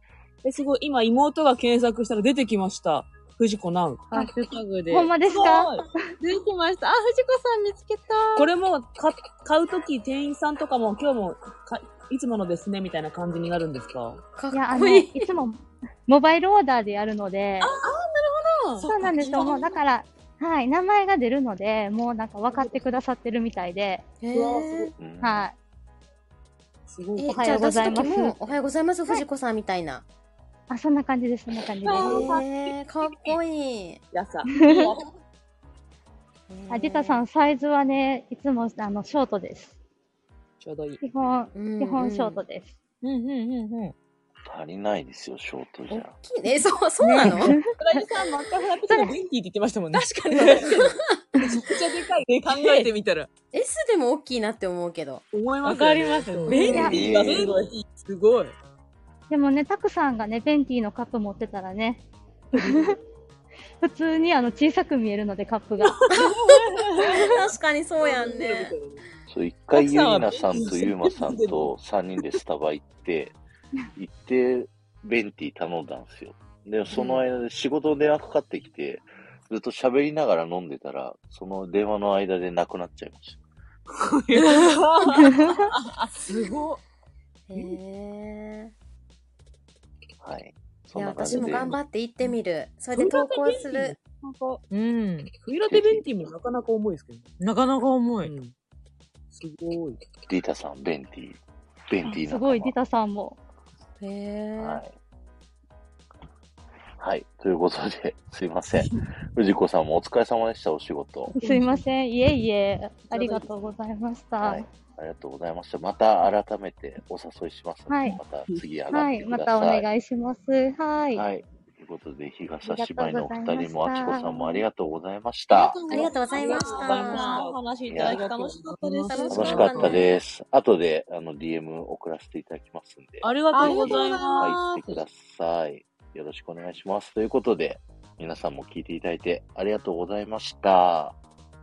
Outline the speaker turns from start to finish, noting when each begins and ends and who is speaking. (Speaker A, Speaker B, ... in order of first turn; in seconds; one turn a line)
Speaker A: 0.4-4.1
Speaker B: 4.1-8.5
Speaker C: 4.9-6.1
Speaker A: 5.3-5.8
Speaker A: 8.3-14.2
Speaker D: 14.3-15.3
Speaker C: 14.5-17.7
Speaker B: 17.8-19.7
Speaker A: 18.8-19.5
Speaker C: 18.8-24.1
Speaker A: 22.5-22.8
Speaker D: 24.2-24.9
Speaker A: 24.3-24.9
Speaker E: 25.0-25.5
Speaker C: 25.2-25.5
Speaker A: 26.9-27.9
Speaker D: 27.2-30.1
Speaker C: 27.2-28.4
Speaker C: 30.7-32.4
Speaker A: 31.8-32.4
Speaker D: 31.9-34.0
Speaker A: 34.1-34.9
Speaker C: 34.5-34.9
Speaker D: 36.5-37.2
Speaker C: 36.7-39.8
Speaker A: 40.6-41.0
Speaker C: 41.0-42.7
Speaker D: 41.5-42.4
Speaker B: 43.0-43.9
Speaker E: 44.5-46.1
Speaker D: 45.9-47.5
Speaker C: 47.0-48.1
Speaker A: 47.8-53.3
Speaker C: 48.9-49.1
Speaker B: 49.9-50.8
Speaker D: 50.8-51.2
Speaker B: 52.5-52.9
Speaker D: 53.5-55.2
Speaker A: 55.3-58.5
Speaker B: 55.6-57.5
Speaker D: 56.5-57.0
Speaker C: 56.5-57.1
Speaker E: 56.9-57.5
Speaker C: 59.3-63.0
Speaker C: 63.8-66.0
Speaker D: 66.1-68.7
Speaker A: 67.0-67.3
Speaker A: 68.0-69.0
Speaker E: 69.3-73.3
Speaker A: 69.8-71.7
Speaker E: 74.0-83.4
Speaker A: 76.9-77.2
Speaker B: 84.0-85.1
Speaker A: 84.3-85.2
Speaker C: 85.2-85.7
Speaker B: 85.9-86.8
Speaker A: 86.2-86.7
Speaker D: 87.5-88.7
Speaker E: 90.2-91.8
Speaker D: 90.9-94.0
Speaker A: 91.2-91.7
Speaker A: 93.0-94.2
Speaker B: 94.0-95.3
Speaker A: 95.4-97.4
Speaker E: 95.7-96.0
Speaker B: 97.4-98.3
Speaker A: 98.2-98.5
Speaker A: 99.3-100.0
Speaker E: 100.3-102.8
Speaker C: 102.0-103.4
Speaker D: 104.0-104.8
Speaker E: 104.6-104.9
Speaker E: 107.0-111.3
Speaker C: 111.3-114.7
Speaker E: 114.4-119.9
Speaker C: 117.9-118.2
Speaker C: 118.9-121.3
Speaker E: 121.1-126.0
Speaker C: 122.6-124.6
Speaker B: 125.5-130.0
Speaker A: 125.9-130.0
Speaker D: 125.9-127.5
Speaker E: 127.9-128.2
Speaker D: 129.1-130.1
Speaker E: 129.3-141.2
Speaker B: 133.2-135.0
Speaker D: 133.5-134.3
Speaker A: 133.6-134.4